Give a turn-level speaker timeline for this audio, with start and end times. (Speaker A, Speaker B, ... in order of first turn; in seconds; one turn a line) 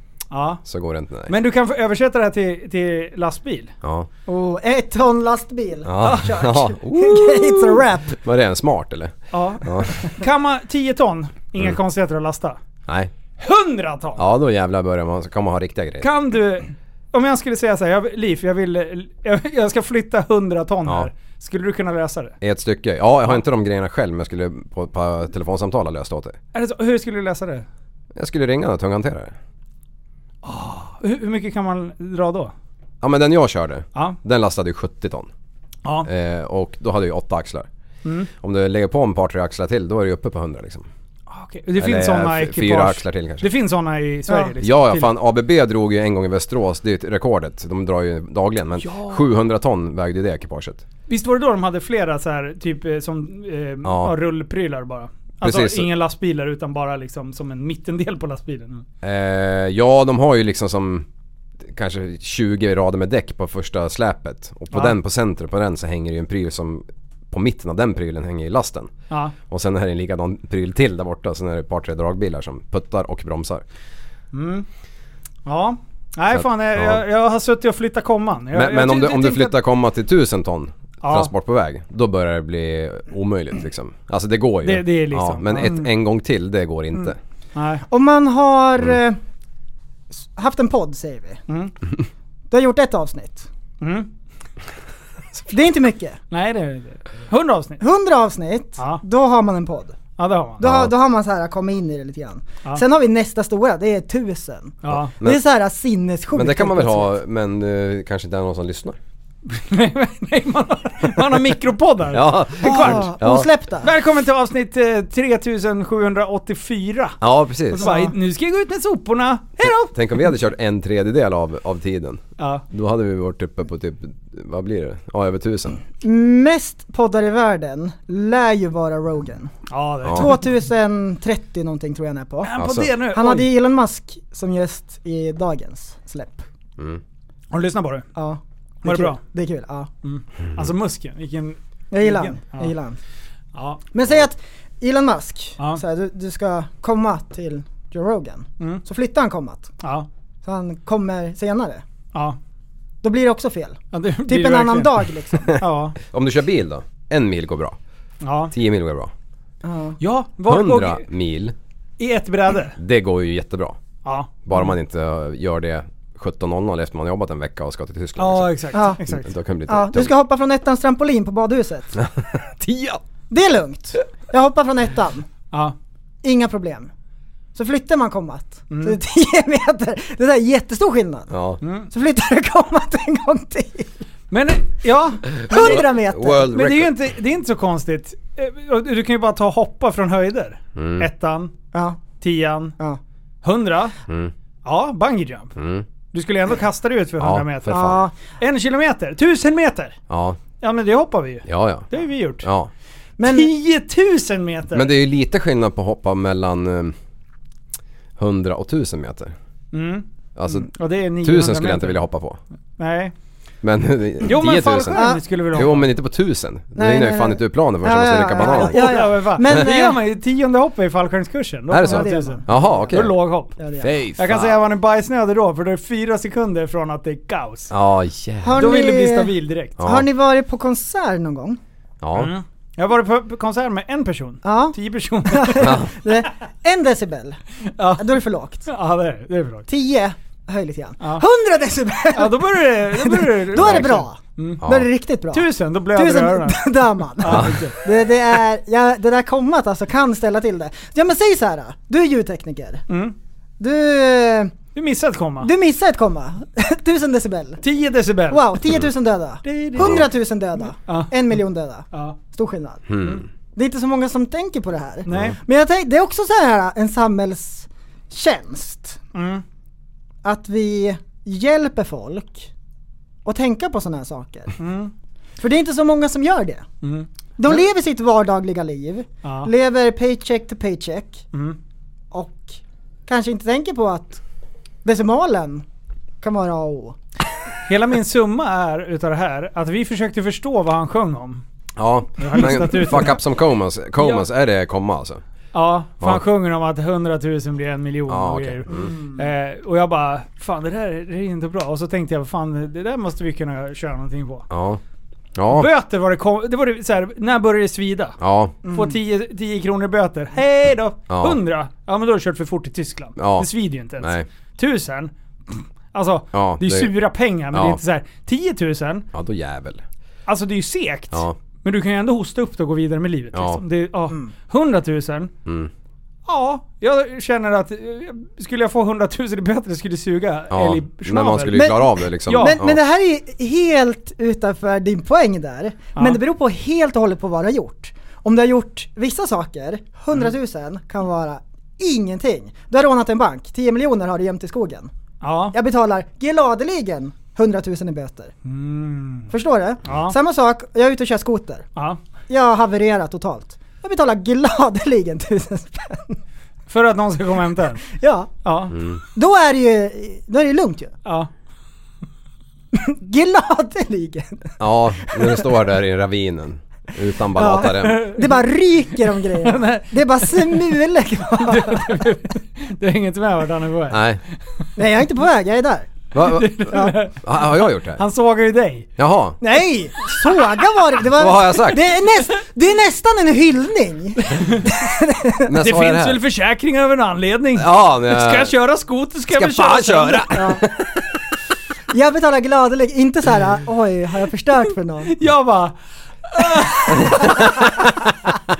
Speaker A: 0.3-0.6
Speaker B: 0.6-1.3
Speaker A: 1.3-3.7
Speaker B: 3.8-4.1
Speaker C: 4.3-8.2
Speaker B: 5.8-9.9
Speaker A: 9.3-12.6
Speaker B: 12.9-13.1
Speaker A: 13.4-14.2
Speaker B: 14.2-16.1
Speaker A: 16.0-22.3
Speaker B: 22.4-26.4
Speaker A: 26.5-27.6
Speaker B: 28.1-29.3
Speaker A: 30.4-32.5
Speaker B: 33.0-35.3
Speaker B: 36.0-37.7
Speaker B: 38.4-40.9
Speaker A: 41.3-45.1
Speaker B: 41.8-43.5
Speaker B: 44.6-50.8
Speaker A: 48.8-49.2
Speaker A: 51.1-58.8
Speaker B: 53.8-54.1
Speaker B: 55.4-55.9
Speaker B: 59.0-61.0
Speaker B: 61.7-68.9
Speaker B: 69.5-73.6
Speaker A: 74.3-74.7
Speaker A: 75.5-79.5
Speaker B: 76.3-77.0
Speaker B: 78.5-87.2
Speaker A: 81.0-81.3
Speaker A: 84.6-85.9
Speaker A: 87.5-87.8
Speaker C: 87.9-89.2
Speaker C: 90.2-91.4
Speaker A: 91.5-91.7
Speaker C: 92.5-93.5
Speaker A: 93.8-94.1
Speaker C: 95.5-96.2
Speaker A: 96.3-97.8
Speaker C: 97.8-100.0
Speaker A: 100.2-100.6
Speaker C: 100.6-107.1
Speaker B: 100.6-100.9
Speaker A: 104.8-105.1
Speaker B: 104.9-105.4
Speaker B: 106.3-109.0
Speaker A: 109.5-113.1
Speaker B: 112.1-113.5
Speaker C: 112.6-113.9
Speaker A: 113.8-117.2
Speaker B: 117.2-117.9
Speaker A: 117.7-119.9
Speaker C: 117.8-118.1
Speaker B: 119.6-125.8
Speaker A: 122.4-122.6
Speaker C: 126.0-129.5
Speaker A: 129.7-130.4
Speaker B: 130.0-130.3
Speaker C: 130.1-132.5
Speaker A: 132.4-133.5
Speaker B: 132.6-132.9
Speaker C: 133.1-136.4
Speaker A: 137.5-138.1
Speaker C: 138.2-139.9
Speaker A: 138.8-139.2
Speaker A: 140.0-142.7
Speaker C: 141.9-143.0
Speaker A: 143.5-143.8
Speaker C: 143.9-149.7
Speaker C: 150.4-151.8
Speaker C: 153.0-155.6
Speaker A: 153.9-156.0
Speaker B: 156.0-157.8
Speaker A: 158.2-158.5
Speaker B: 158.5-159.1
Speaker C: 159.6-160.0
Speaker A: 160.0-161.0
Speaker B: 160.5-161.5
Speaker A: 162.0-162.8
Speaker B: 162.8-163.8
Speaker A: 164.0-164.4
Speaker B: 164.4-170.1
Speaker A: 168.2-169.3
Speaker C: 168.7-169.0
Speaker C: 169.7-172.0
Speaker B: 172.0-173.0
Speaker C: 173.3-175.3
Speaker C: 176.2-176.9
Speaker C: 177.5-181.3
Speaker A: 178.7-179.0
Speaker B: 181.3-181.6
Speaker A: 181.6-181.9
Speaker C: 181.9-183.9
Speaker A: 184.3-185.8
Speaker C: 185.3-186.5
Speaker B: 185.4-187.0
Speaker A: 186.5-191.5
Speaker B: 190.8-191.1
Speaker C: 191.7-192.0
Speaker A: 192.2-192.8
Speaker A: 193.4-193.9
Speaker B: 194.1-194.3
Speaker A: 194.6-195.6
Speaker B: 195.6-195.8
Speaker A: 196.1-199.9
Speaker B: 197.2-198.0
Speaker C: 197.7-198.1
Speaker B: 200.1-200.4
Speaker A: 200.6-202.4
Speaker B: 201.4-201.9
Speaker B: 202.4-202.7
Speaker C: 203.2-203.5
Speaker A: 203.2-204.9
Speaker B: 204.7-206.9
Speaker B: 208.2-209.3
Speaker A: 209.7-212.0
Speaker B: 210.4-210.7
Speaker B: 211.2-212.4
Speaker A: 212.8-213.1
Speaker B: 213.6-219.6
Speaker A: 214.2-215.9
Speaker C: 214.9-215.2
Speaker C: 216.7-220.0
Speaker A: 218.4-223.6
Speaker B: 221.7-223.2
Speaker C: 221.8-223.9
Speaker B: 223.8-224.6
Speaker A: 224.2-227.7
Speaker B: 227.7-228.7
Speaker C: 228.4-231.6
Speaker A: 228.6-229.8
Speaker B: 229.8-230.1
Speaker B: 232.0-232.3
Speaker A: 232.1-235.8
Speaker C: 234.4-234.7
Speaker C: 235.3-237.4
Speaker B: 235.6-235.9
Speaker A: 237.8-239.7
Speaker C: 238.0-238.7
Speaker C: 239.7-252.8
Speaker A: 242.1-244.6
Speaker B: 243.6-243.9
Speaker B: 244.6-244.9
Speaker A: 245.3-247.8
Speaker B: 247.2-247.7
Speaker A: 252.9-253.1
Speaker C: 253.6-254.5
Speaker A: 254.7-255.5
Speaker C: 255.4-257.6
Speaker A: 257.6-258.5
Speaker C: 258.3-269.0
Speaker A: 259.4-260.1
Speaker B: 259.8-260.1
Speaker A: 260.9-261.1
Speaker B: 262.9-263.2
Speaker A: 265.1-265.4
Speaker B: 265.1-265.4
Speaker A: 269.1-269.4
Speaker C: 270.2-272.5
Speaker C: 273.2-274.5
Speaker A: 274.6-274.9
Speaker C: 275.4-276.6
Speaker A: 276.8-277.1
Speaker C: 277.4-281.2
Speaker A: 279.2-279.5
Speaker A: 281.3-281.6
Speaker C: 282.1-284.2
Speaker C: 284.8-285.6
Speaker C: 286.2-287.0
Speaker A: 287.7-291.4
Speaker B: 291.8-295.2
Speaker A: 292.2-293.2
Speaker A: 294.0-294.2
Speaker A: 295.5-304.4
Speaker B: 298.1-298.9
Speaker C: 298.7-299.1
Speaker B: 304.5-304.8
Speaker B: 305.4-305.7
Speaker A: 305.5-319.1
Speaker B: 308.2-308.6
Speaker C: 308.6-308.9
Speaker B: 311.1-311.4
Speaker B: 313.2-314.2
Speaker B: 316.3-316.9
Speaker B: 317.5-317.8
Speaker B: 319.1-319.8
Speaker A: 320.3-325.3
Speaker B: 323.3-323.6
Speaker B: 325.4-325.7
Speaker A: 326.2-332.6
Speaker B: 330.5-332.8
Speaker C: 332.3-344.9
Speaker A: 345.2-345.5
Speaker C: 345.5-348.3
Speaker A: 348.4-349.3
Speaker C: 349.3-351.7
Speaker A: 349.9-350.1
Speaker C: 352.3-356.2
Speaker A: 356.7-357.8
Speaker C: 357.9-358.3
Speaker A: 358.4-358.7
Speaker B: 358.7-359.0
Speaker C: 359.1-360.9
Speaker C: 362.7-364.5
Speaker B: 364.6-368.0
Speaker C: 365.1-365.4
Speaker C: 367.4-372.0
Speaker A: 367.6-368.4
Speaker A: 369.4-370.8
Speaker A: 371.3-374.0
Speaker B: 373.9-374.2
Speaker C: 374.8-375.9
Speaker B: 376.1-378.0
Speaker A: 376.1-378.9
Speaker C: 376.7-376.9
Speaker B: 379.0-379.4
Speaker C: 379.4-385.5
Speaker B: 381.1-381.8
Speaker A: 384.3-384.7
Speaker B: 385.5-386.2
Speaker A: 385.6-390.6
Speaker B: 387.6-388.5
Speaker B: 389.3-391.0
Speaker C: 390.3-390.6
Speaker C: 391.9-395.1
Speaker A: 395.1-395.7
Speaker A: 396.3-397.5
Speaker B: 397.1-397.9